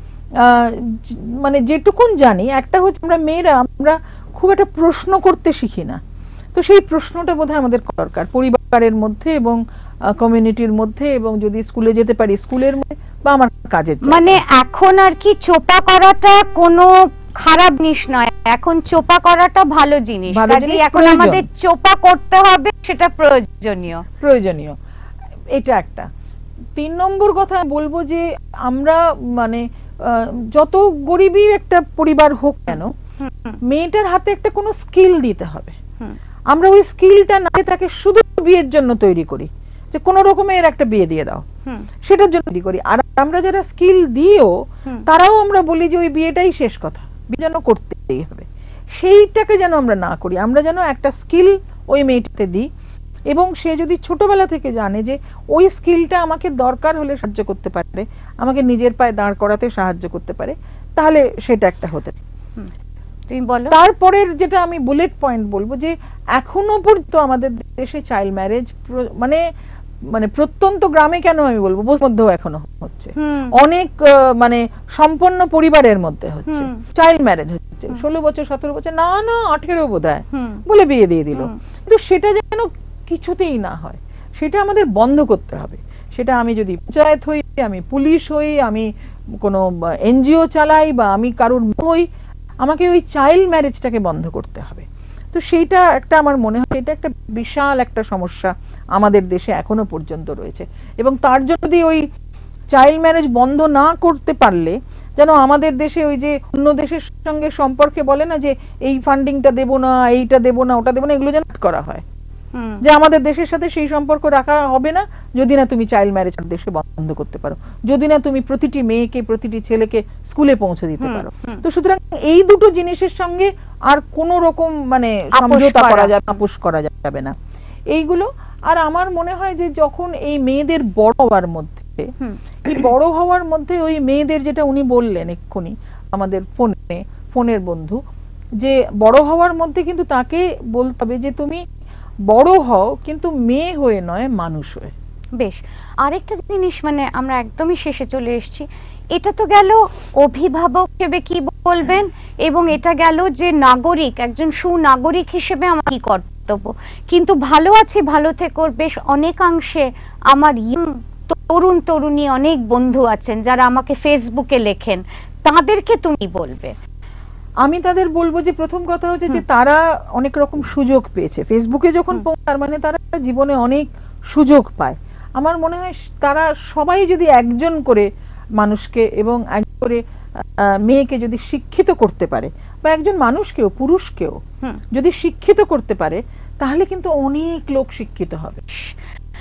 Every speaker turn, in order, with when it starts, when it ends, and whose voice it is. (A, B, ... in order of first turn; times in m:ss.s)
0:00.4-0:06.0 A
0:06.6-0:14.4 A
0:14.0-0:24.0 B
0:20.3-0:21.4 A
0:24.2-0:24.7 A
0:25.5-0:26.1 A
0:26.8-0:32.9 A
0:32.7-0:33.6 B
0:33.7-0:35.8 A
0:36.5-0:41.4 A
0:42.0-0:44.5 A
0:45.0-0:52.6 A
0:53.3-1:02.2 A
1:03.3-1:03.7 B
1:03.7-1:09.4 A
1:10.1-1:28.9 A
1:13.2-1:13.5 B
1:16.5-1:16.8 B
1:20.3-1:20.6 B
1:29.4-1:32.0 A
1:32.6-1:42.0 A
1:42.7-1:52.0 A
1:52.5-1:52.8 B
1:52.8-2:07.3 A
2:01.0-2:01.6 B
2:05.3-2:06.2 B
2:07.9-2:12.1 A
2:12.2-2:12.9 B
2:12.6-2:18.0 A
2:18.6-2:21.6 A
2:22.3-2:24.9 A
2:25.4-2:46.7 B
2:47.6-3:00.0 A
3:00.8-3:04.4 A
3:04.9-3:08.6 A